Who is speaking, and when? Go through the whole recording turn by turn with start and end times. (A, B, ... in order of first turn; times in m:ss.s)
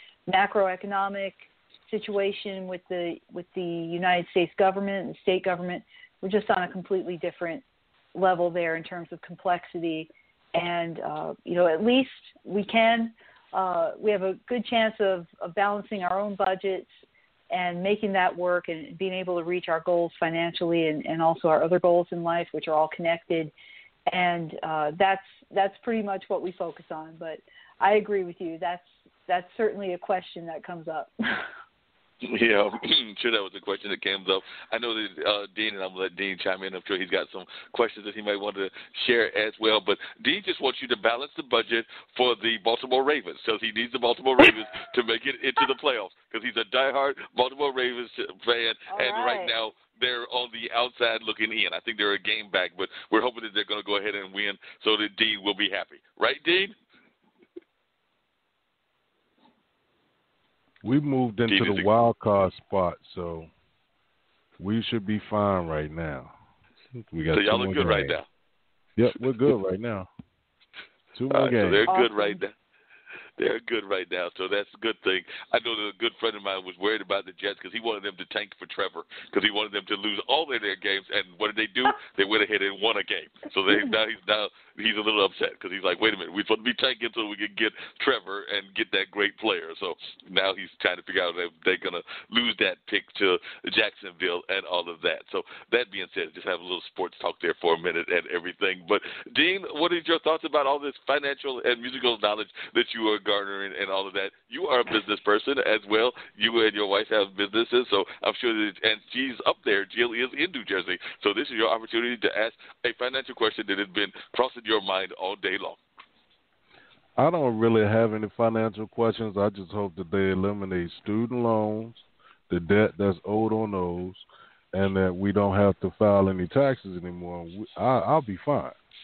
0:00.3-0:07.6 A
0:08.1-0:16.9 A
0:17.5-0:23.5 A
0:24.1-0:31.5 A
0:32.2-0:56.7 B
0:48.9-0:49.5 A
1:00.8-1:03.5 C
1:01.5-1:01.9 B
1:04.6-1:06.3 C
1:07.1-1:08.2 C
1:07.3-1:08.2 B
1:09.0-1:10.1 C
1:11.1-1:11.8 C
1:11.3-1:12.5 B
1:11.9-1:12.4 A
1:13.4-1:55.8 B
1:57.2-2:02.0 C
2:02.5-2:08.7 C